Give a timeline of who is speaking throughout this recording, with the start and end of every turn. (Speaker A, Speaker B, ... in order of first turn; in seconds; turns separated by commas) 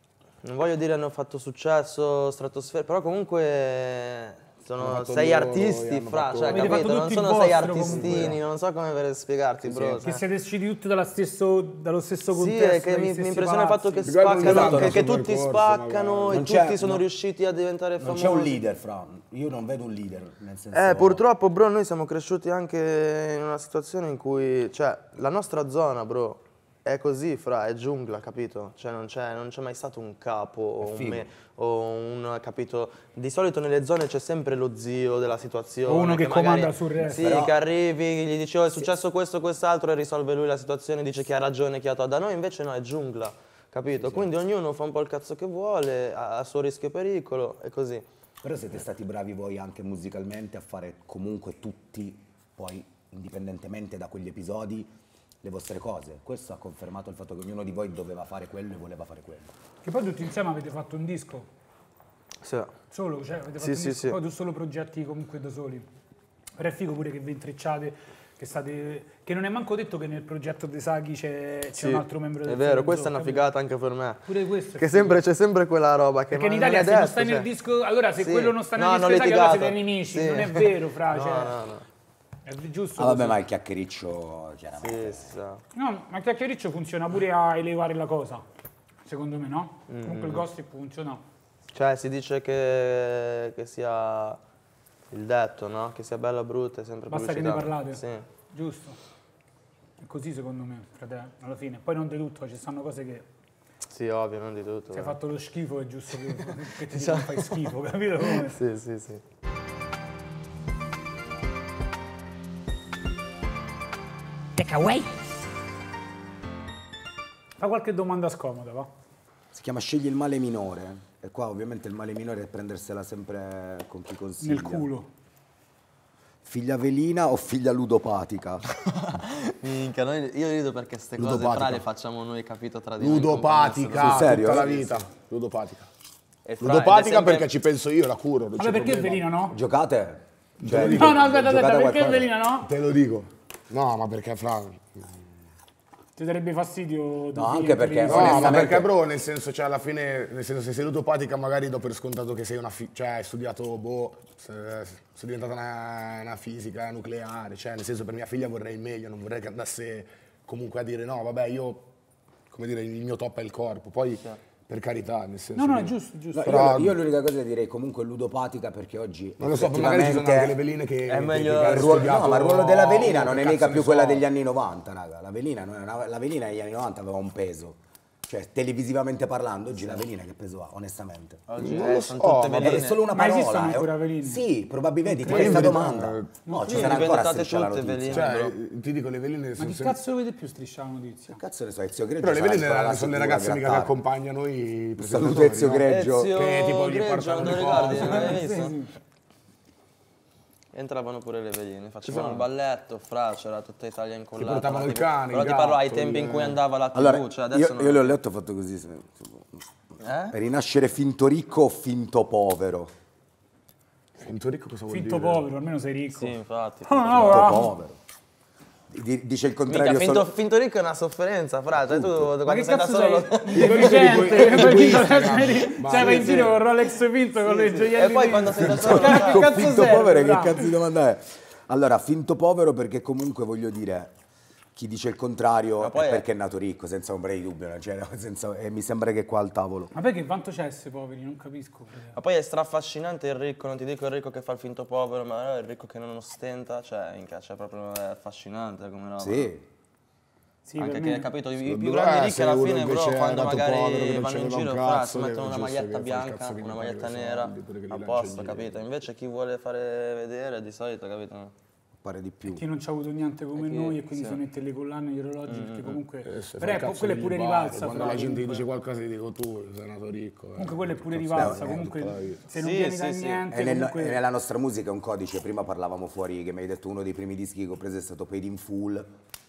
Speaker A: 0.4-10.2, Speaker B: 4.8-7.0, Speaker C: 6.5-8.4, Speaker B: 7.8-8.4, Speaker B: 9.6-10.1, Speaker C: 10.0-14.1, Speaker A: 12.3-18.6, Speaker B: 14.0-16.4, Speaker D: 14.4-15.0, Speaker D: 16.3-17.0, Speaker D: 18.0-21.2, Speaker A: 20.7-48.0, Speaker D: 30.8-31.3, Speaker C: 35.9-37.4, Speaker D: 37.0-37.5, Speaker D: 44.0-44.3, Speaker D: 48.4-59.5, Speaker C: 59.8-61.5, Speaker A: 62.4-62.7, Speaker C: 62.9-65.9, Speaker A: 63.6-64.2, Speaker C: 66.6-73.5, Speaker A: 71.8-77.5, Speaker C: 74.3-75.2, Speaker C: 76.3-81.5, Speaker A: 78.2-81.8, Speaker C: 82.5-83.4, Speaker D: 83.0-85.4, Speaker A: 84.8-85.6, Speaker C: 85.7-88.4, Speaker C: 89.0-91.2, Speaker A: 89.9-90.5, Speaker A: 91.7-94.4, Speaker A: 95.1-98.2, Speaker C: 97.1-99.0, Speaker C: 100.0-103.2, Speaker A: 103.9-105.2, Speaker C: 104.9-108.6, Speaker A: 106.4-107.7, Speaker A: 108.2-109.2, Speaker D: 114.5-115.1, Speaker C: 117.6-118.9, Speaker D: 119.5-124.9, Speaker C: 124.4-125.1, Speaker D: 126.4-128.7, Speaker A: 129.0-135.0, Speaker D: 131.2-131.8, Speaker B: 133.0-135.9, Speaker D: 134.0-134.8, Speaker A: 136.4-137.5, Speaker B: 136.6-139.2, Speaker C: 138.6-139.6, Speaker D: 139.5-142.3, Speaker B: 140.6-141.3, Speaker C: 140.7-142.7, Speaker B: 142.6-145.2, Speaker C: 146.2-148.8, Speaker D: 147.3-148.9, Speaker B: 148.1-161.9, Speaker B: 162.5-167.0, Speaker C: 165.5-166.7, Speaker D: 166.3-170.6, Speaker B: 169.4-174.2, Speaker A: 171.1-172.4, Speaker D: 171.6-181.4, Speaker A: 181.5-183.1, Speaker B: 181.6-182.8, Speaker D: 182.5-188.3, Speaker C: 183.1-184.4, Speaker C: 185.1-185.8, Speaker B: 185.2-186.3, Speaker C: 186.4-187.2, Speaker A: 186.7-188.6, Speaker B: 188.1-190.0, Speaker C: 189.6-191.4, Speaker D: 191.3-193.9, Speaker B: 192.2-198.4, Speaker D: 195.0-196.4, Speaker A: 195.8-198.7, Speaker C: 197.8-199.0, Speaker A: 200.7-208.1, Speaker B: 202.0-202.4, Speaker B: 204.4-206.6, Speaker D: 206.9-209.7, Speaker A: 210.0-210.3, Speaker D: 210.3-212.9, Speaker B: 214.2-215.4, Speaker C: 214.9-217.7, Speaker A: 216.1-217.5, Speaker D: 216.9-218.0, Speaker D: 218.9-220.3, Speaker A: 219.7-224.3, Speaker D: 221.8-222.3, Speaker C: 222.4-230.7, Speaker B: 223.5-226.6, Speaker A: 225.8-226.7, Speaker A: 227.4-229.6, Speaker D: 228.6-234.1, Speaker D: 234.7-239.9, Speaker A: 235.8-236.2, Speaker C: 239.9-242.2, Speaker A: 242.1-249.5, Speaker D: 249.2-249.6, Speaker C: 250.7-251.3, Speaker A: 250.8-261.5, Speaker B: 251.6-258.8, Speaker D: 261.9-262.6, Speaker C: 262.4-268.6, Speaker A: 263.5-264.4, Speaker A: 265.5-266.0, Speaker B: 266.2-272.4, Speaker C: 270.6-274.2, Speaker D: 271.3-271.9, Speaker A: 272.5-273.5, Speaker D: 273.5-279.1